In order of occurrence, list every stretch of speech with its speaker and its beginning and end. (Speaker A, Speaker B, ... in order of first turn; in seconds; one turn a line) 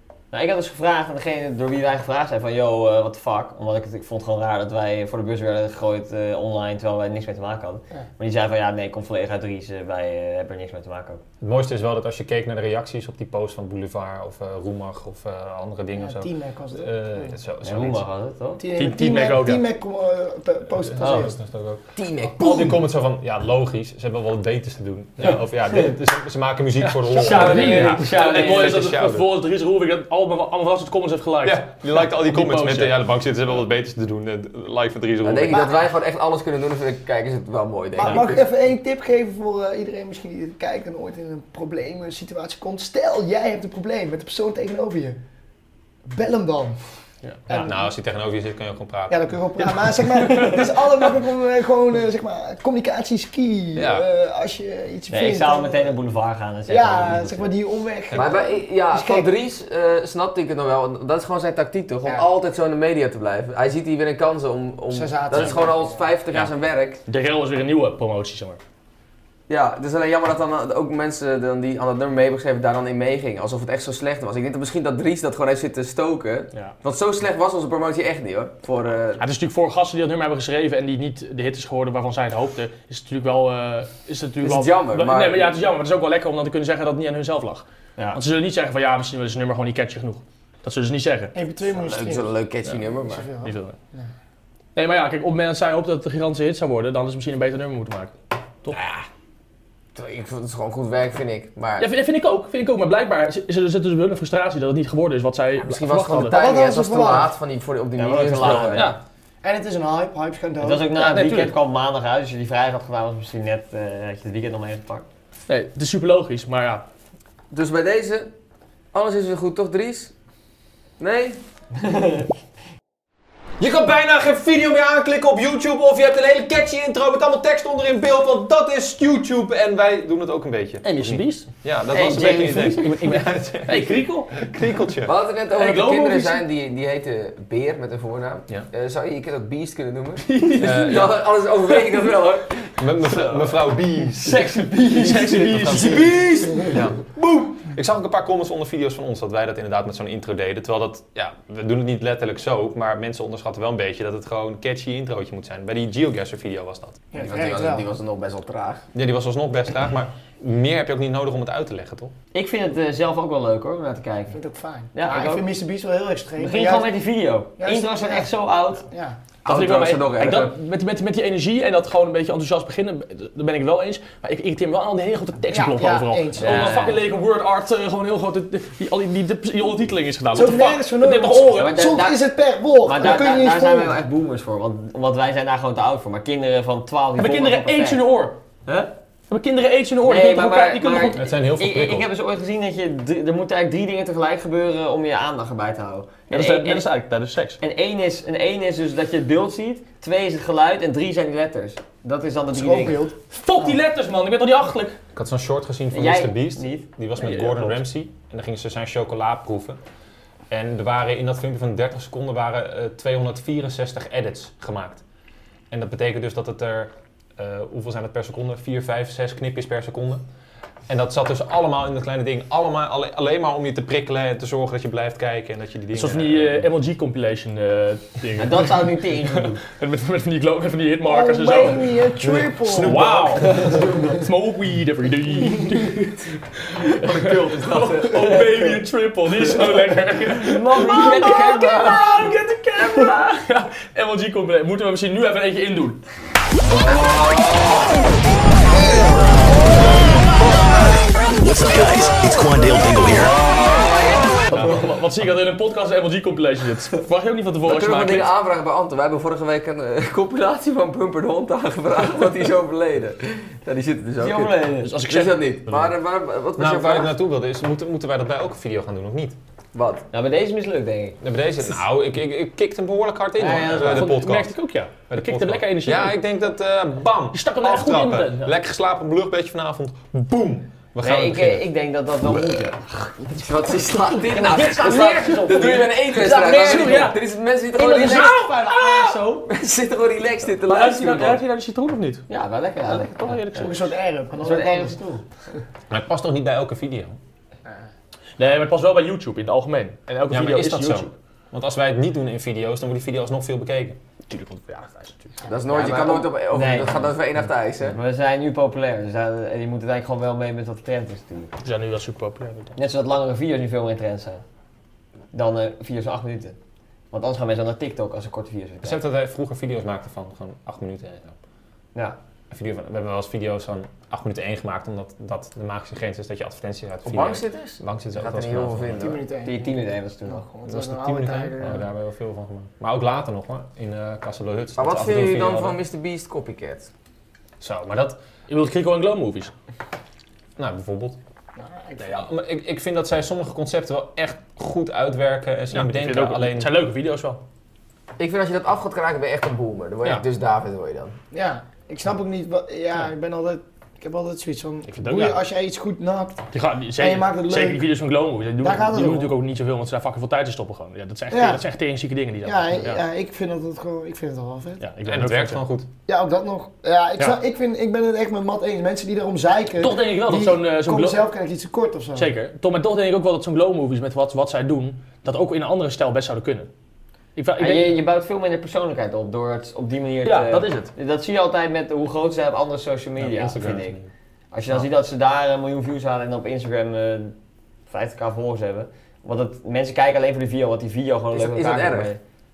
Speaker A: 0.3-11.2
Speaker B: 11.4-18.0
Speaker C: 15.9-17.3
Speaker A: 17.6-18.6
Speaker C: 18.6-21.4
Speaker D: 18.7-19.6
Speaker B: 20.9-21.8
Speaker A: 21.0-21.3
Speaker E: 21.9-22.8
Speaker B: 22.4-29.3
Speaker D: 26.8-32.9
Speaker A: 27.1-28.9
Speaker B: 31.4-35.7
Speaker E: 35.2-38.4
Speaker C: 35.5-35.7
Speaker C: 37.9-45.2
Speaker C: 46.1-46.8
Speaker C: 47.5-47.9
Speaker B: 47.5-49.2
Speaker C: 49.1-55.9
Speaker D: 50.2-50.6
Speaker B: 53.8-54.0
Speaker A: 55.1-57.5
Speaker C: 56.7-59.3
Speaker B: 58.1-58.4
Speaker E: 58.1-67.0
Speaker C: 64.9-66.0
Speaker D: 67.1-68.6
Speaker E: 69.5-79.2
Speaker D: 79.2-91.3
Speaker E: 84.4-85.5
Speaker C: 91.3-92.3
Speaker E: 91.8-93.3
Speaker C: 93.0-94.1
Speaker D: 93.4-93.8
Speaker D: 94.7-98.8
Speaker E: 98.7-99.0
Speaker E: 99.9-101.9
Speaker D: 101.8-106.4
Speaker E: 105.6-108.9
Speaker C: 106.3-107.3
Speaker A: 108.0-109.0
Speaker D: 108.3-109.0
Speaker C: 109.4-110.9
Speaker A: 110.6-115.0
Speaker D: 110.9-111.5
Speaker D: 115.5-116.8
Speaker E: 117.5-118.3
Speaker E: 118.9-120.1
Speaker E: 121.0-121.4
Speaker A: 121.9-122.2
Speaker B: 123.6-135.1
Speaker D: 130.8-131.5
Speaker A: 131.9-133.2
Speaker D: 133.7-134.5
Speaker E: 135.0-143.5
Speaker D: 135.5-136.4
Speaker D: 140.2-141.1
Speaker B: 140.6-141.2
Speaker B: 142.8-144.8
Speaker A: 144.2-146.2
Speaker D: 144.9-146.1
Speaker B: 145.4-146.1
Speaker E: 145.8-146.8
Speaker B: 146.7-157.1
Speaker C: 157.1-157.9
Speaker E: 157.1-158.8
Speaker B: 158.9-162.1
Speaker A: 162.3-164.4
Speaker C: 164.3-166.9
Speaker A: 164.9-165.5
Speaker A: 166.4-168.8
Speaker C: 167.6-168.3
Speaker C: 168.9-169.2
Speaker E: 169.4-170.5
Speaker D: 169.4-181.8
Speaker C: 175.5-176.9
Speaker A: 176.4-177.0
Speaker C: 180.3-183.9
Speaker A: 181.5-182.2
Speaker A: 182.8-188.0
Speaker D: 187.2-188.4
Speaker D: 189.3-191.2
Speaker A: 190.0-196.9
Speaker B: 191.1-192.1
Speaker D: 196.3-197.6
Speaker A: 197.6-203.0
Speaker C: 202.5-203.2
Speaker D: 203.3-205.0
Speaker B: 205.1-209.8
Speaker A: 205.9-206.9
Speaker D: 207.2-207.8
Speaker B: 210.5-215.0
Speaker B: 215.7-220.2
Speaker B: 220.9-226.6
Speaker D: 225.9-232.0
Speaker A: 228.4-229.6
Speaker C: 231.0-233.1
Speaker B: 232.2-233.9
Speaker D: 232.7-246.0
Speaker E: 236.8-238.5
Speaker A: 240.4-242.1
Speaker B: 246.6-247.7
Speaker F: 251.3-253.4
Speaker D: 254.4-258.3
Speaker E: 257.6-267.1
Speaker A: 264.2-264.9
Speaker D: 264.8-265.9
Speaker B: 266.6-269.4
Speaker E: 269.7-270.1
Speaker A: 270.1-271.2
Speaker B: 271.2-281.7
Speaker A: 273.4-274.2
Speaker D: 273.7-276.2
Speaker D: 277.3-278.5
Speaker A: 281.0-282.8
Speaker E: 283.1-288.4
Speaker A: 284.3-287.0
Speaker D: 284.4-287.2
Speaker C: 287.7-289.2
Speaker D: 287.8-289.4
Speaker E: 289.5-291.4
Speaker D: 290.6-292.3
Speaker A: 292.3-293.7
Speaker D: 292.8-293.9
Speaker C: 293.6-295.0
Speaker A: 294.3-295.2
Speaker B: 295.9-297.2
Speaker D: 298.4-301.1
Speaker B: 300.3-304.0
Speaker D: 304.3-305.3
Speaker E: 305.4-308.0
Speaker A: 305.7-307.1
Speaker A: 307.9-311.5
Speaker D: 311.6-312.7
Speaker A: 312.8-314.4
Speaker A: 315.3-316.6
Speaker A: 317.1-319.0
Speaker B: 318.8-321.4
Speaker B: 322.5-329.1
Speaker E: 327.0-329.2
Speaker C: 328.9-329.8
Speaker A: 329.4-330.4
Speaker C: 330.3-331.8
Speaker B: 330.6-335.8
Speaker E: 334.8-336.9
Speaker B: 337.6-338.2
Speaker D: 338.5-339.5
Speaker B: 340.6-341.2
Speaker C: 341.6-342.3
Speaker B: 342.0-346.7
Speaker D: 345.7-347.4
Speaker E: 348.2-351.1
Speaker C: 351.3-356.4
Speaker D: 354.9-355.4
Speaker D: 356.5-363.0
Speaker C: 357.0-357.8
Speaker C: 358.6-359.4
Speaker C: 361.3-361.6
Speaker C: 362.4-364.8
Speaker D: 364.8-365.6
Speaker B: 365.0-365.9
Speaker C: 366.1-372.3
Speaker D: 369.8-371.2
Speaker D: 372.1-376.7
Speaker D: 377.4-378.0
Speaker A: 377.6-384.0
Speaker D: 380.2-380.9
Speaker B: 383.2-384.1
Speaker A: 384.5-387.3
Speaker A: 387.9-392.2
Speaker E: 391.3-392.1